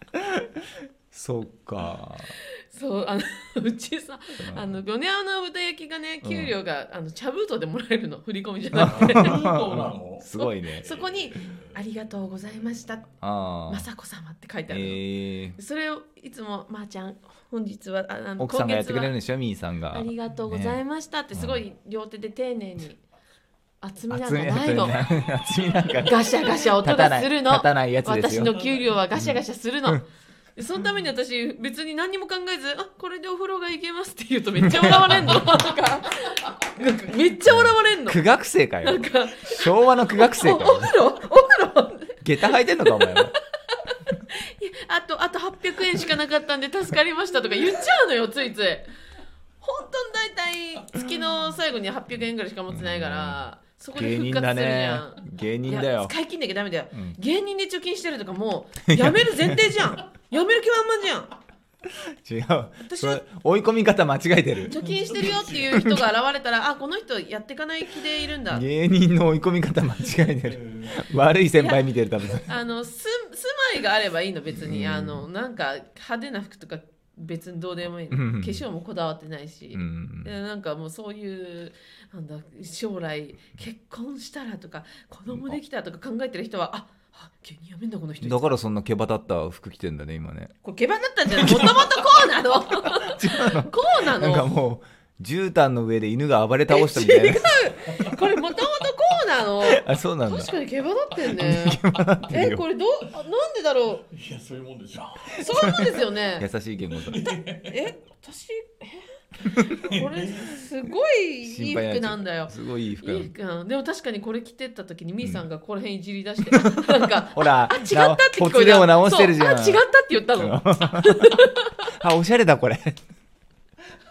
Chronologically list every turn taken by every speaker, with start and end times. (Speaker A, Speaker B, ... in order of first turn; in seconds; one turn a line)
Speaker A: 0.1-2.3
Speaker B: 2.3-9.7
Speaker A: 4.4-4.7
Speaker A: 6.2-6.5
Speaker A: 8.8-10.9
Speaker C: 8.8-10.3
Speaker B: 10.3-13.2
Speaker C: 10.8-11.5
Speaker A: 13.2-13.8
Speaker B: 13.7-15.0
Speaker A: 14.7-15.6
Speaker B: 15.6-19.1
Speaker A: 18.4-20.8
Speaker B: 19.9-23.0
Speaker A: 21.3-21.6
Speaker B: 23.8-25.0
Speaker A: 24.1-28.6
Speaker B: 26.0-38.2
Speaker A: 34.9-35.4
Speaker A: 37.5-41.0
Speaker B: 38.8-43.8
Speaker A: 42.2-43.3
Speaker B: 44.3-48.9
Speaker B: 49.6-61.3
Speaker A: 52.7-56.1
Speaker A: 58.9-59.7
Speaker A: 62.2-64.8
Speaker B: 62.8-63.2
Speaker B: 64.7-68.7
Speaker C: 64.8-65.7
Speaker A: 65.7-66.0
Speaker A: 68.5-72.5
Speaker C: 70.5-70.9
Speaker B: 71.6-71.8
Speaker B: 72.4-88.6
Speaker A: 74.6-75.2
Speaker A: 78.1-78.7
Speaker A: 79.7-80.3
Speaker A: 88.2-90.5
Speaker B: 90.6-94.5
Speaker A: 91.3-92.1
Speaker A: 92.8-97.6
Speaker B: 96.7-104.1
Speaker A: 99.6-100.5
Speaker A: 101.2-102.6
Speaker C: 104.1-105.5
Speaker B: 105.4-106.5
Speaker A: 105.5-107.3
Speaker C: 107.0-107.8
Speaker B: 107.6-121.9
Speaker C: 109.9-110.5
Speaker A: 111.4-113.3
Speaker A: 116.5-119.8
Speaker A: 120.3-121.2
Speaker A: 121.9-123.0